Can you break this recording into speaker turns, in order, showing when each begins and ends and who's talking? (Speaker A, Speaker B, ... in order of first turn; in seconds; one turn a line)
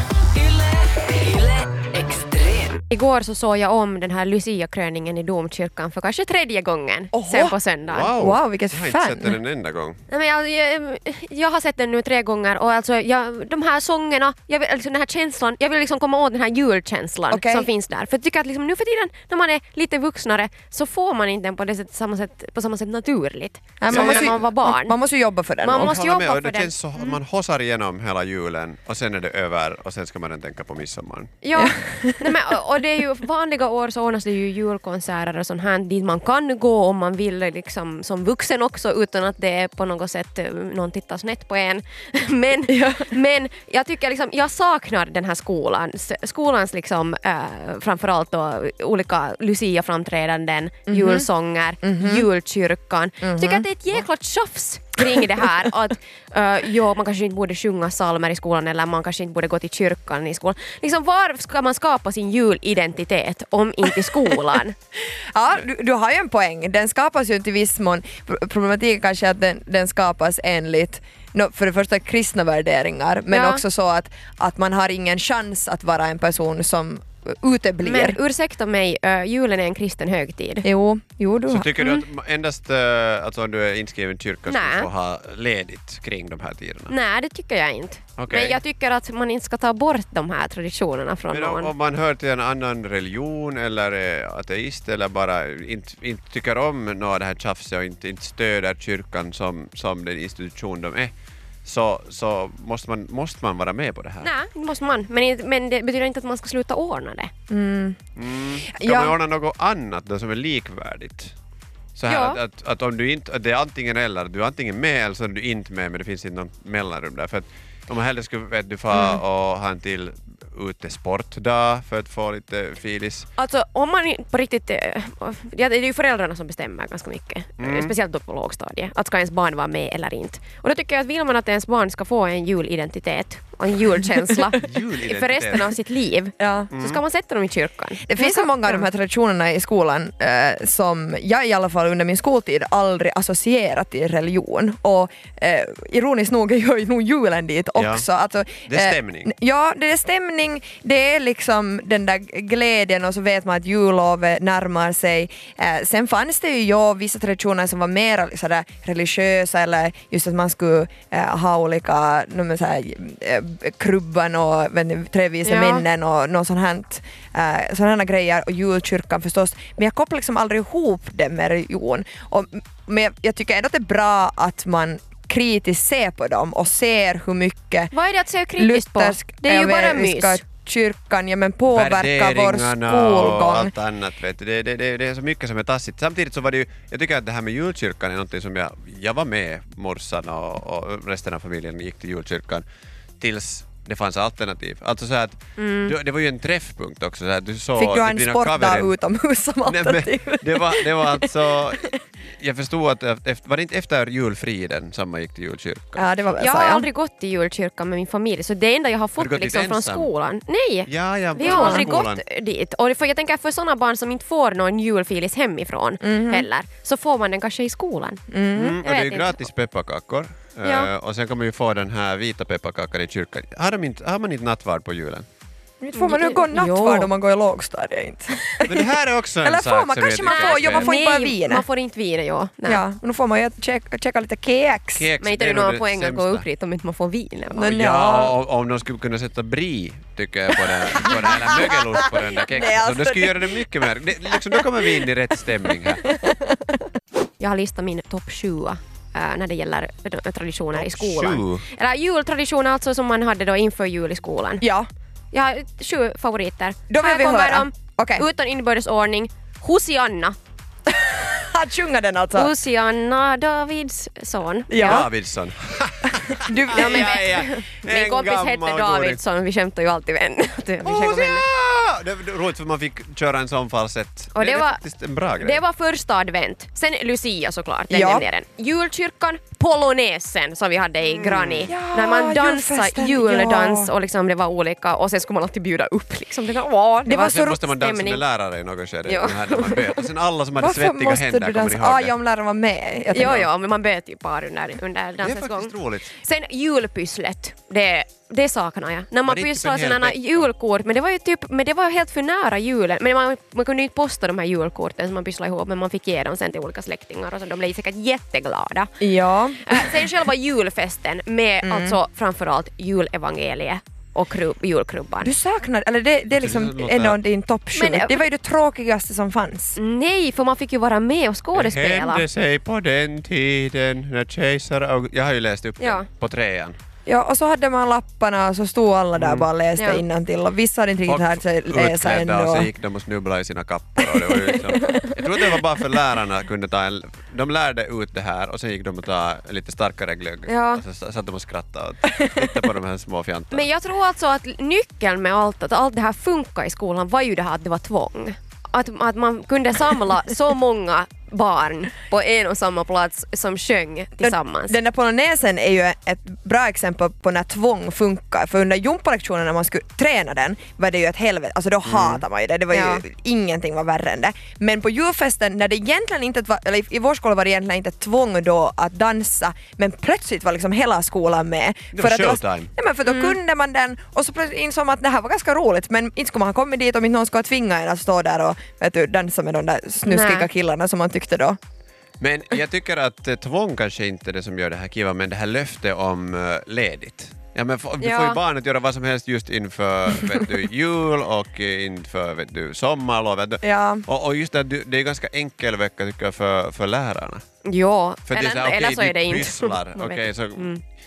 Speaker A: 2.9-8.1
Speaker B: 7.1-7.5
Speaker C: 7.9-10.0
Speaker B: 8.2-9.4
Speaker A: 10.1-25.0
Speaker B: 17.3-17.7
Speaker B: 23.8-25.9
Speaker C: 23.9-24.4
Speaker A: 25.6-27.2
Speaker C: 25.8-31.3
Speaker A: 31.4-64.8
Speaker B: 31.6-32.4
Speaker B: 42.7-43.1
Speaker B: 50.9-51.3
Speaker B: 51.8-52.3
Speaker B: 53.2-53.7
Speaker B: 65.0-78.2
Speaker A: 73.3-73.6
Speaker A: 77.8-80.7
Speaker B: 80.6-81.7
Speaker C: 81.5-86.9
Speaker A: 81.8-82.0
Speaker A: 84.5-84.9
Speaker A: 86.9-91.7
Speaker C: 88.2-88.6
Speaker C: 91.3-101.1
Speaker C: 101.7-104.3
Speaker A: 104.2-107.3
Speaker B: 107.5-108.0
Speaker C: 108.2-111.3
Speaker B: 108.8-109.2
Speaker C: 112.0-123.3
Speaker A: 112.1-112.4
Speaker B: 118.9-119.2
Speaker A: 123.4-138.9
Speaker C: 127.6-127.9
Speaker C: 134.5-135.7
Speaker B: 136.4-136.7
Speaker C: 136.7-137.0
Speaker B: 138.1-177.9
Speaker C: 147.8-148.1
Speaker C: 148.7-149.3
Speaker A: 165.4-165.9
Speaker A: 177.9-180.4
Speaker B: 178.6-183.7
Speaker C: 181.7-192.7
Speaker C: 193.2-198.9
Speaker A: 195.6-196.0
Speaker B: 197.8-201.9
Speaker C: 199.7-206.1
Speaker B: 206.0-206.9
Speaker A: 206.4-218.2
Speaker C: 209.2-210.1
Speaker C: 210.9-212.2
Speaker B: 211.4-211.9
Speaker B: 216.0-216.5
Speaker B: 218.3-218.8
Speaker C: 218.6-225.3
Speaker A: 218.8-219.5
Speaker A: 220.6-220.9
Speaker B: 225.8-228.9
Speaker A: 225.9-227.1
Speaker C: 228.6-230.9
Speaker B: 229.4-231.7
Speaker A: 230.1-232.8
Speaker B: 232.7-235.1
Speaker C: 234.9-236.4
Speaker A: 235.2-237.7
Speaker B: 237.5-238.3
Speaker C: 237.6-246.1
Speaker B: 240.8-243.6
Speaker B: 244.3-245.1
Speaker B: 245.9-246.7
Speaker A: 247.4-254.6
Speaker C: 250.7-251.7
Speaker B: 254.6-254.9
Speaker A: 255.3-260.4
Speaker B: 256.9-258.2
Speaker B: 261.0-262.5
Speaker A: 262.4-265.1
Speaker B: 264.7-265.1
Speaker C: 264.8-269.2
Speaker B: 266.4-267.3
Speaker A: 266.7-271.4
Speaker C: 270.8-275.6
Speaker A: 274.4-274.8
Speaker A: 275.4-288.2
Speaker B: 277.9-278.2
Speaker B: 281.0-283.9
Speaker B: 287.1-287.6
Speaker C: 287.1-292.1
Speaker A: 289.1-290.1
Speaker B: 290.6-293.5
Speaker A: 293.1-308.9
Speaker C: 295.2-296.1
Speaker C: 299.3-300.4
Speaker B: 309.0-310.0
Speaker A: 309.6-315.3
Speaker B: 311.6-312.0
Speaker B: 315.2-319.8
Speaker C: 316.3-317.2
Speaker A: 317.7-318.2
Speaker A: 319.8-322.2
Speaker C: 321.5-326.8
Speaker A: 325.8-326.1
Speaker B: 327.1-332.7
Speaker C: 329.1-329.5
Speaker A: 329.8-330.0
Speaker C: 331.1-343.7
Speaker B: 334.0-335.2
Speaker A: 340.5-340.8
Speaker A: 343.5-354.8
Speaker B: 354.2-381.6
Speaker C: 361.9-362.2
Speaker A: 362.7-363.0
Speaker C: 371.9-372.7
Speaker A: 373.1-373.4
Speaker A: 380.1-380.5
Speaker C: 382.2-397.4
Speaker A: 388.0-388.4
Speaker B: 393.6-394.1
Speaker A: 397.6-400.8
Speaker C: 398.3-400.7